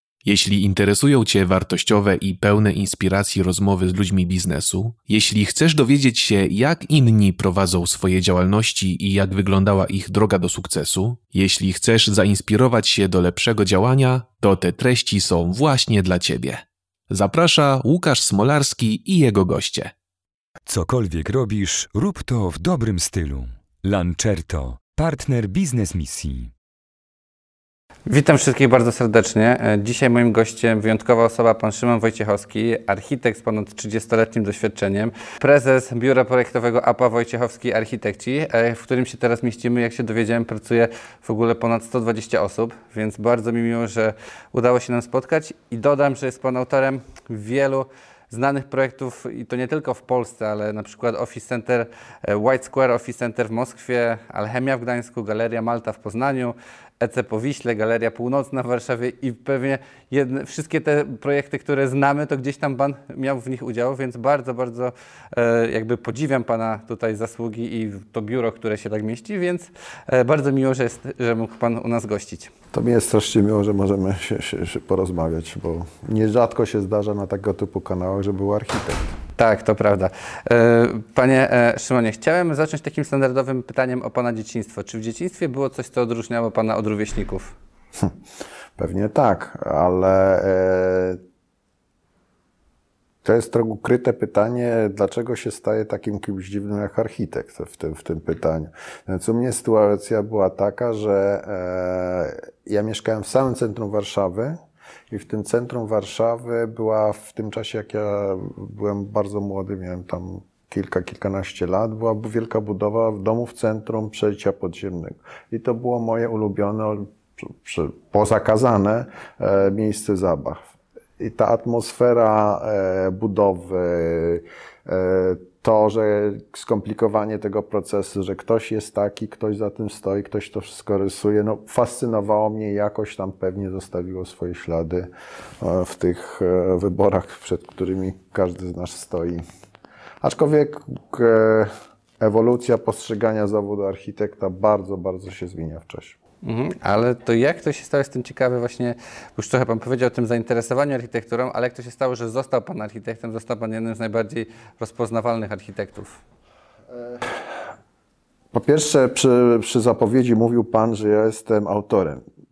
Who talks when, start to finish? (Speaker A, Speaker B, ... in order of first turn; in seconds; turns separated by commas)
Speaker A: 0.2-19.9, Speaker B: 20.7-26.5, Speaker C: 28.1-72.5, Speaker D: 72.7-79.2, Speaker C: 79.4-87.5, Speaker D: 88.8-91.2, Speaker D: 93.2-104.6, Speaker D: 105.1-120.7, Speaker D: 121.2-135.1, Speaker D: 135.6-139.4, Speaker D: 140.2-146.2, Speaker C: 146.4-156.2, Speaker D: 157.0-157.4, Speaker D: 158.5-162.2